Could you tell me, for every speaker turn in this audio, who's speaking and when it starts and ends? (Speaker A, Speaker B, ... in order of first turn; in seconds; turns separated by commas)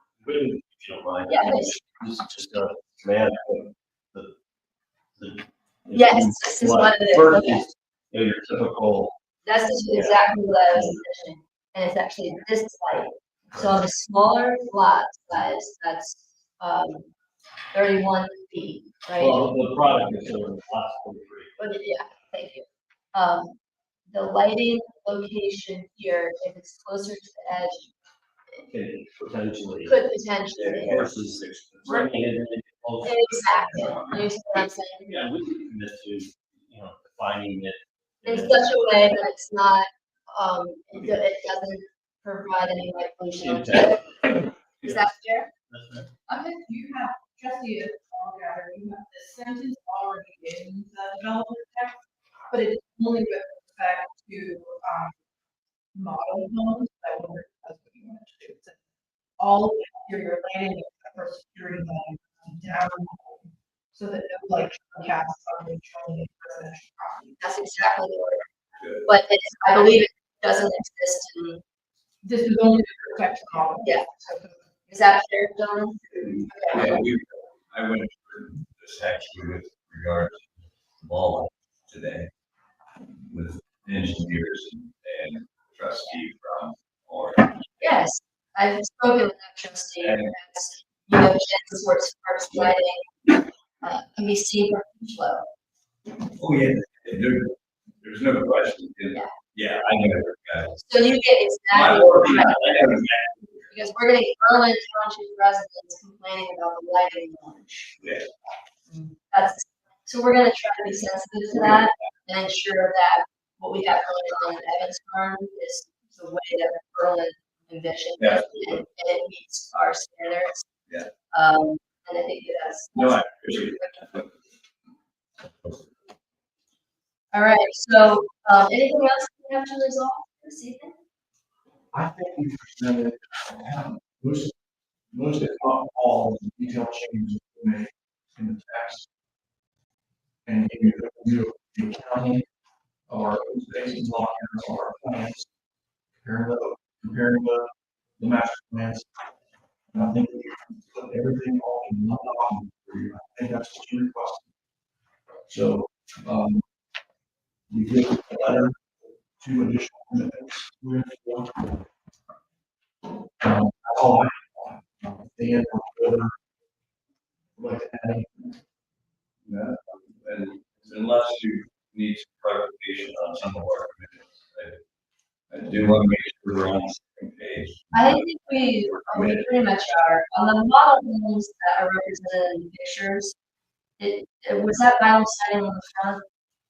Speaker A: 0.2-4.3, Speaker B: 1.3-1.8, Speaker A: 5.2-9.1, Speaker B: 5.9-7.7, Speaker B: 9.4-17.1, Speaker A: 9.9-10.9, Speaker A: 13.5-13.8, Speaker B: 17.7-19.5, Speaker A: 19.2-21.5, Speaker B: 21.6-23.6, Speaker B: 24.1-27.9, Speaker A: 28.7-29.9, Speaker B: 29.8-31.0, Speaker C: 30.6-31.1, Speaker A: 30.7-34.1, Speaker B: 33.0-35.1, Speaker A: 35.0-38.6, Speaker B: 38.2-44.0, Speaker A: 43.4-45.0, Speaker B: 44.8-45.5, Speaker A: 45.7-46.1, Speaker D: 46.3-52.0, Speaker D: 52.5-55.1, Speaker D: 55.9-58.8, Speaker D: 59.4-67.4, Speaker B: 67.4-68.4, Speaker C: 68.8-69.1, Speaker B: 69.0-71.6, Speaker D: 72.2-74.5, Speaker B: 73.8-74.2, Speaker B: 74.9-76.9, Speaker C: 76.2-80.5, Speaker C: 81.0-82.3, Speaker C: 83.3-87.7, Speaker B: 87.8-95.4, Speaker C: 90.0-90.3, Speaker C: 96.3-100.8, Speaker B: 100.8-102.9, Speaker C: 101.7-103.6, Speaker B: 103.7-107.9, Speaker C: 108.0-108.3, Speaker B: 109.3-120.7, Speaker C: 118.2-118.8, Speaker B: 121.3-124.1, Speaker C: 122.9-124.2, Speaker B: 127.3-130.9, Speaker E: 131.9-134.5, Speaker E: 135.1-139.1, Speaker E: 140.4-142.4, Speaker E: 143.1-145.5, Speaker E: 146.2-149.1, Speaker E: 149.9-154.4, Speaker E: 155.5-156.6, Speaker E: 157.7-158.8, Speaker E: 159.4-161.8, Speaker E: 163.4-166.3, Speaker E: 167.6-168.3, Speaker C: 169.4-174.8, Speaker C: 175.5-178.2, Speaker B: 177.9-183.3, Speaker C: 178.8-179.5, Speaker B: 184.0-186.2